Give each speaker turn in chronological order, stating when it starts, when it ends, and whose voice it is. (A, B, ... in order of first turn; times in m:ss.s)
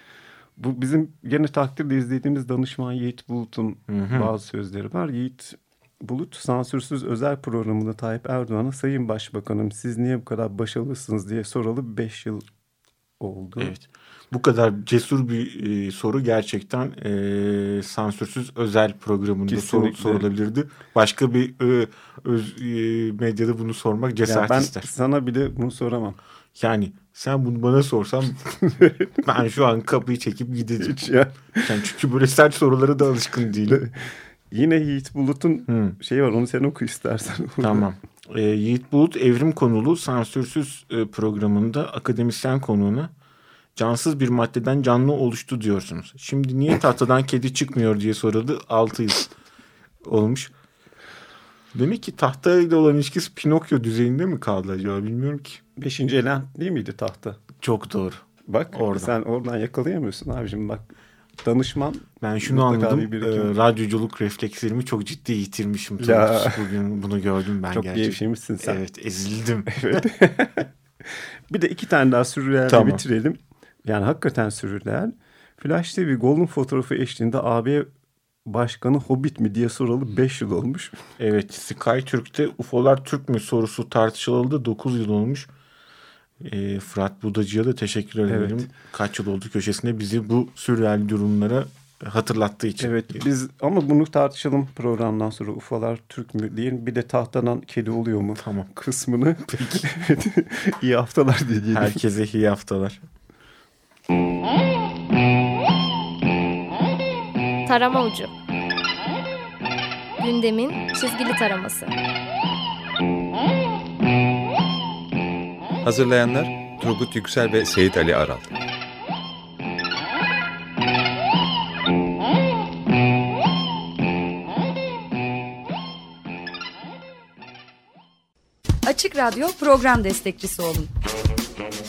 0:00.6-0:12.5 A
0:03.9-0:04.3 B
0:13.2-0:13.8 A
0:13.6-0:24.9 B
0:19.5-0:20.3 A
0:24.2-0:26.2 A
0:26.6-0:28.6 B
0:28.6-0:29.1 A
0:29.2-0:31.0 B
0:30.8-0:31.7 A
0:31.6-0:33.8 B
0:33.7-0:37.9 A
0:35.7-0:36.0 B
0:37.6-0:43.1 B
0:43.8-0:49.3 B
0:50.0-0:50.5 B
0:51.7-0:55.6 B
0:55.8-0:57.4 A
0:57.6-0:59.1 B
0:58.5-1:00.9 A
1:01.4-1:03.5 A
1:02.2-1:10.0 B
1:06.0-1:06.7 A
1:07.7-1:08.8 A
1:09.7-1:17.9 A
1:12.7-1:13.0 B
1:18.5-1:21.0 A
1:21.2-1:25.5 B
1:26.4-1:33.2 B
1:28.3-1:28.7 A
1:32.8-1:42.0 A
1:38.4-1:38.7 B
1:39.5-1:39.8 B
1:41.7-1:43.0 B
1:47.7-1:48.3 C
1:50.2-1:51.9 C
1:55.8-1:58.5 D
2:08.8-2:10.9 E